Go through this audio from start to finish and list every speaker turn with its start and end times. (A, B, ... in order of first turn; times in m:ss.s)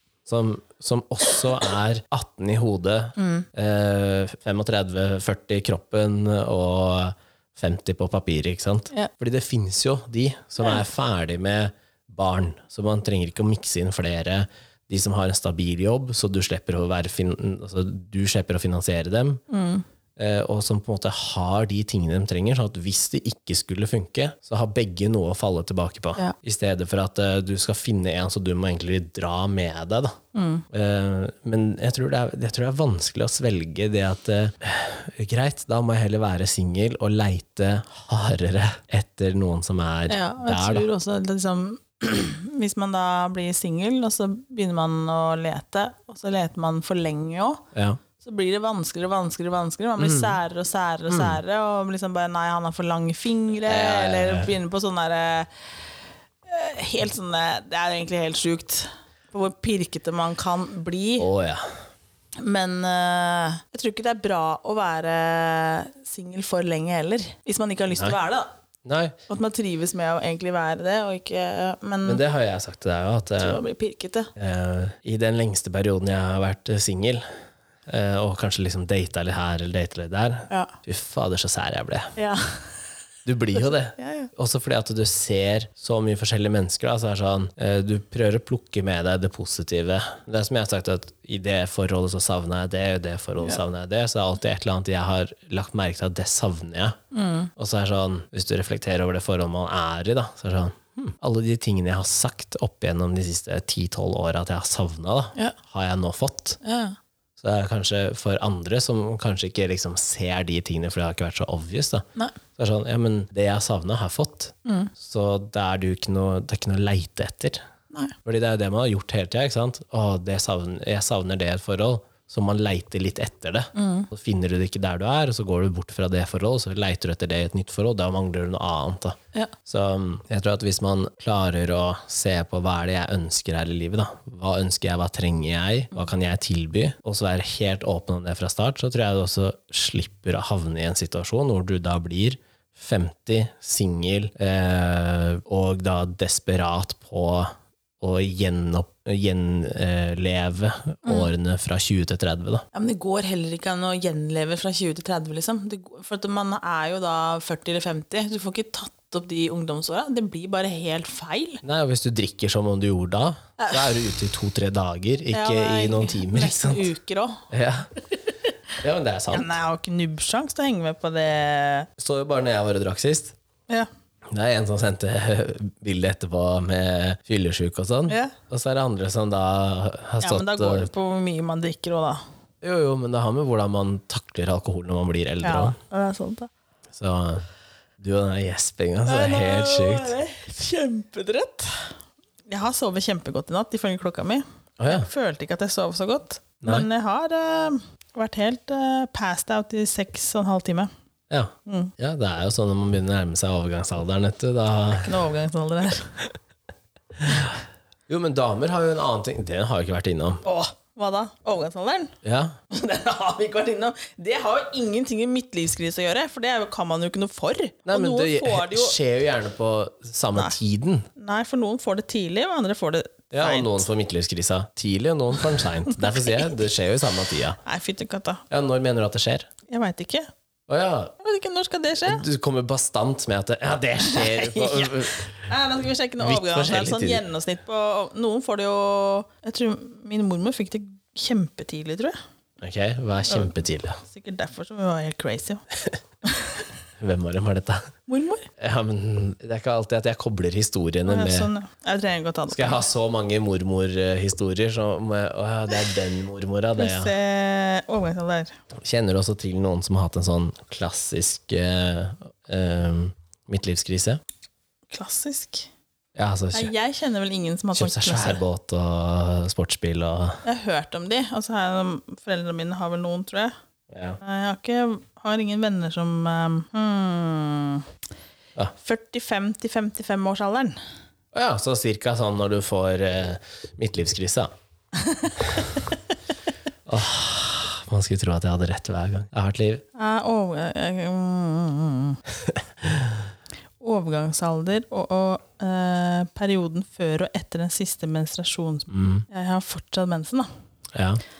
0:00.2-0:19.4 A
0:03.2-0:03.4 B
0:19.5-0:19.8 B
0:20.2-0:30.1 A
0:30.3-0:30.6 B
0:30.7-0:40.9 A
0:40.1-0:47.7 B
0:47.7-0:48.0 A
0:48.2-0:55.5 B
0:50.0-0:50.4 A
0:51.1-0:51.4 A
0:53.6-0:54.5 A
0:56.4-1:01.3 B
1:01.2-1:01.6 A
1:02.4-1:08.5 B
1:08.8-1:09.1 A
1:09.3-1:12.2 B
1:12.0-1:13.6 A
1:13.4-1:14.3 B
1:14.4-1:17.2 A
1:17.9-1:22.1 A
1:22.2-1:22.7 B
1:23.2-1:37.0 A
1:24.0-1:24.3 B
1:37.1-1:37.5 B
1:37.6-1:46.6 A
1:46.6-1:47.0 B
1:47.4-1:57.6 A
1:54.6-1:54.9 B
1:58.2-2:32.6 A
2:03.7-2:04.1 B
2:31.0-2:31.3 B
2:32.7-2:41.6 B
2:41.6-2:46.9 A
2:43.6-2:43.9 B
2:45.3-2:47.4 B
2:47.5-2:47.9 A
2:48.8-2:49.5 A
2:49.3-2:51.9 B
2:52.0-2:53.3 A
2:54.3-3:00.9 A
2:58.1-2:58.3 B
3:00.2-3:02.2 B
3:02.6-3:05.8 A
3:05.4-3:06.5 B
3:06.9-3:07.4 A
3:08.0-3:10.1 A
3:09.0-3:11.9 B
3:12.5-3:20.9 B
3:14.8-3:15.1 A
3:16.6-3:16.9 A
3:21.3-3:25.2 A
3:21.7-3:21.9 B
3:24.9-3:26.2 B
3:27.2-3:27.6 A
3:28.1-3:30.4 A
3:30.4-3:32.1 B
3:32.2-3:32.6 A
3:32.7-3:39.0 B
3:37.9-3:41.1 A
3:41.2-3:43.8 B
3:43.3-3:47.6 A
3:45.9-3:46.5 B
3:47.6-3:48.4 B
3:48.5-3:49.5 A
3:49.7-3:50.3 B
3:50.7-3:51.1 A
3:51.2-3:52.2 B
3:52.0-3:55.5 A
3:54.0-4:02.2 B
3:56.2-3:57.2 A
4:02.6-4:04.0 A
4:04.0-4:05.6 B
4:06.2-4:06.6 B
4:07.0-4:07.9 A
4:08.1-4:08.5 B
4:08.6-4:11.5 A
4:11.0-4:12.8 B
4:12.5-4:17.1 A
4:16.8-4:18.6 B
4:18.8-4:24.2 A
4:24.9-4:25.7 B
4:26.2-4:26.7 A
4:26.5-4:28.4 B
4:27.7-4:30.4 A
4:30.4-4:33.5 B
4:33.9-4:34.2 A
4:34.2-4:37.9 B
4:38.8-4:40.8 B
4:41.3-4:44.5 A
4:45.0-4:45.9 B
4:46.8-4:49.8 A
4:49.9-4:52.2 B
4:52.5-4:53.2 A
4:53.8-5:00.5 B
4:58.9-4:59.2 A
5:00.9-5:01.2 A